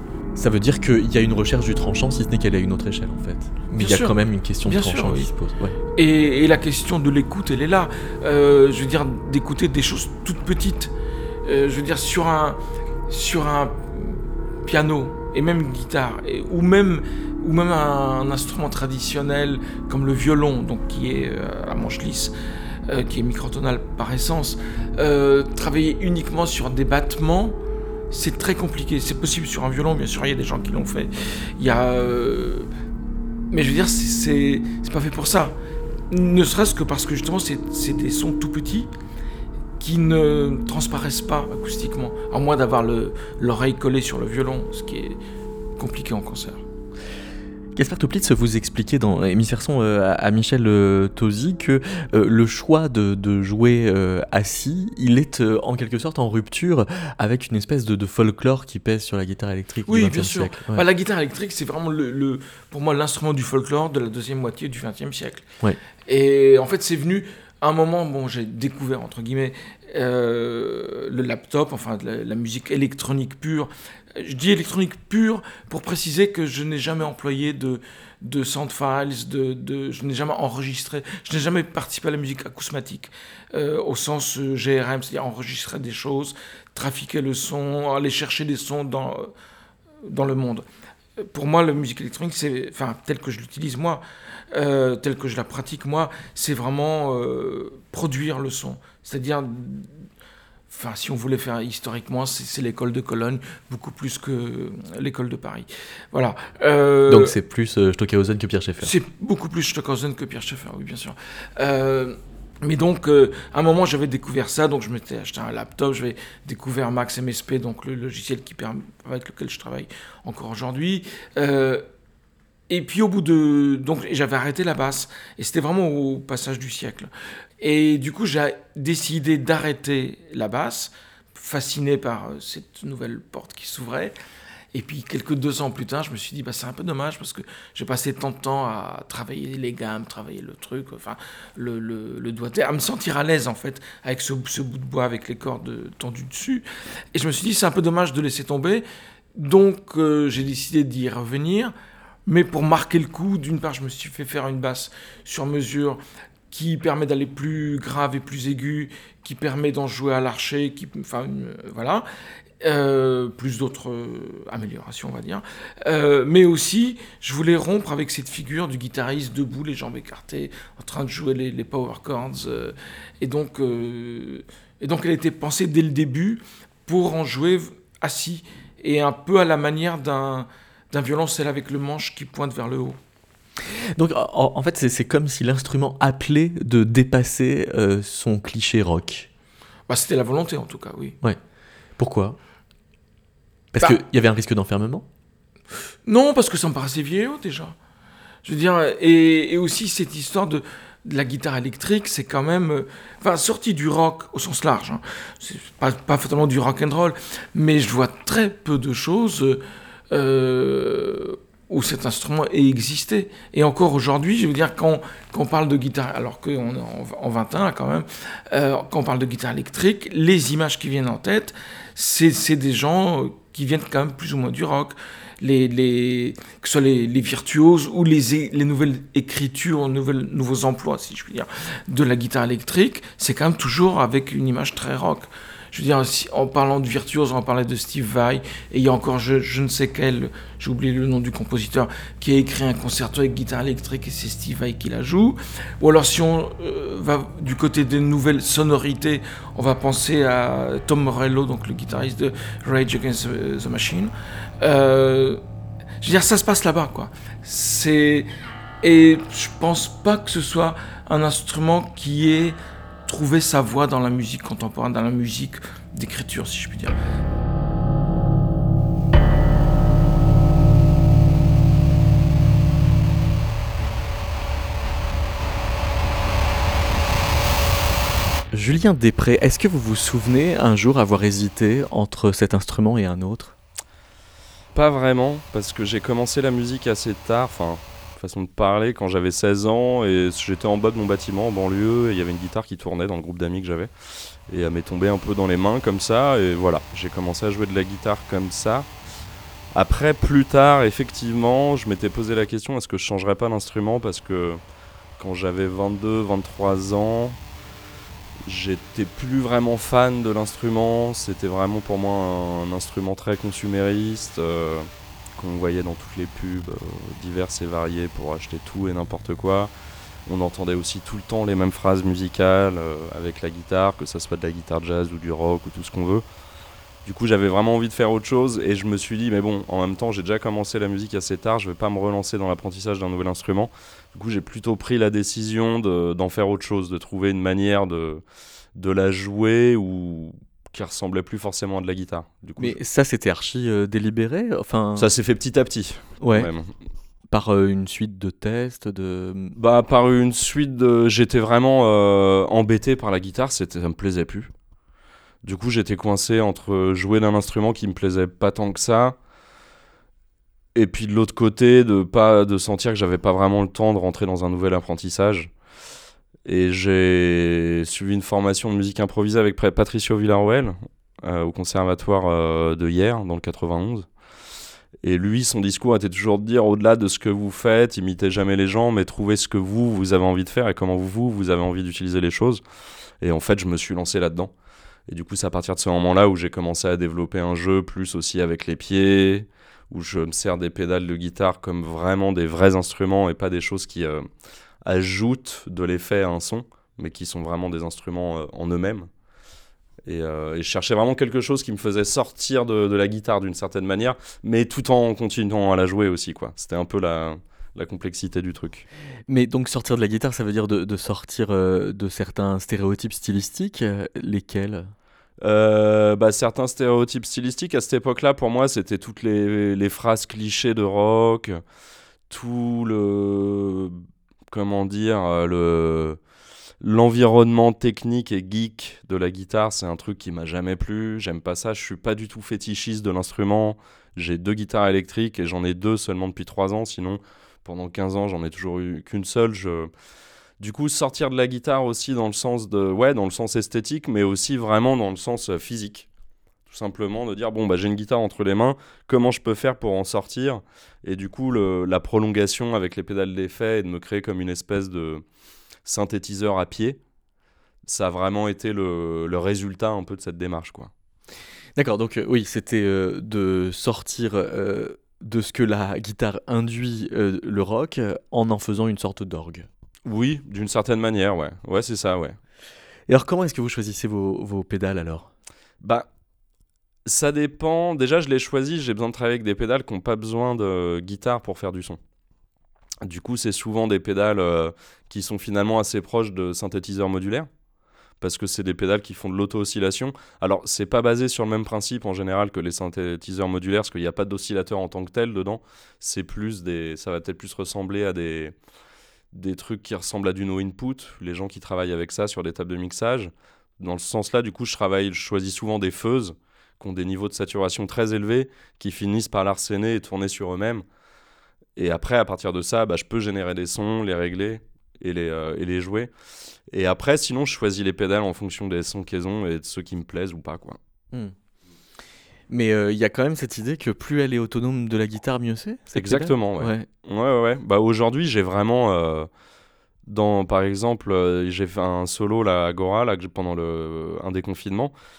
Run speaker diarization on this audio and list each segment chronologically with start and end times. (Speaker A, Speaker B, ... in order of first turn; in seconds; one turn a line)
Speaker A: 0.3-5.8
Speaker B: 3.8-5.3
Speaker B: 6.0-10.9
Speaker B: 11.4-22.3
Speaker B: 22.9-32.7
Speaker B: 33.5-35.6
Speaker B: 36.1-38.9
Speaker B: 39.8-45.2
Speaker B: 45.8-46.6
Speaker A: 47.7-60.8
Speaker B: 59.9-65.5
Speaker B: 66.1-89.3
Speaker B: 90.1-90.7
Speaker B: 91.3-100.0
Speaker B: 100.7-107.3
Speaker A: 107.1-108.9
Speaker B: 108.8-121.8
Speaker B: 122.7-134.1
Speaker B: 134.7-151.7
Speaker B: 152.2-156.0
Speaker B: 156.5-162.0
Speaker B: 162.6-183.0
Speaker A: 183.9-189.3
Speaker B: 189.9-191.2
Speaker A: 192.0-192.4
Speaker A: 193.7-195.1
Speaker B: 196.1-197.8
Speaker B: 198.4-255.4
Speaker B: 256.0-258.3
Speaker B: 258.8-267.0
Speaker A: 278.5-283.5
Speaker C: 284.7-293.9
Speaker C: 294.5-298.9
Speaker C: 299.7-304.6
Speaker C: 305.2-307.4
Speaker C: 308.4-319.7
Speaker C: 320.2-326.2
Speaker C: 327.0-338.2
Speaker C: 338.7-342.8
Speaker A: 342.6-345.1
Speaker C: 345.0-346.7
Speaker A: 346.2-346.5
Speaker A: 347.3-349.5
Speaker C: 349.6-354.5
Speaker C: 355.4-359.2
Speaker C: 360.7-365.5
Speaker C: 366.4-374.1
Speaker C: 375.0-382.6
Speaker C: 383.2-384.5
Speaker C: 385.1-394.2
Speaker C: 394.8-399.1
Speaker C: 400.0-408.9
Speaker A: 409.3-414.9
Speaker C: 415.4-421.6
Speaker C: 422.3-426.2
Speaker C: 426.8-439.9
Speaker C: 440.6-446.1
Speaker C: 446.7-455.2
Speaker C: 455.8-457.0
Speaker C: 457.9-460.9
Speaker A: 461.8-469.7
Speaker C: 470.0-472.4
Speaker A: 473.1-475.3
Speaker C: 475.8-476.1
Speaker C: 477.1-482.0
Speaker C: 483.0-487.5
Speaker C: 488.2-498.5
Speaker C: 499.3-510.8
Speaker C: 511.8-516.1
Speaker C: 516.7-520.8
Speaker A: 522.5-526.9
Speaker C: 525.9-529.3
Speaker C: 530.0-534.9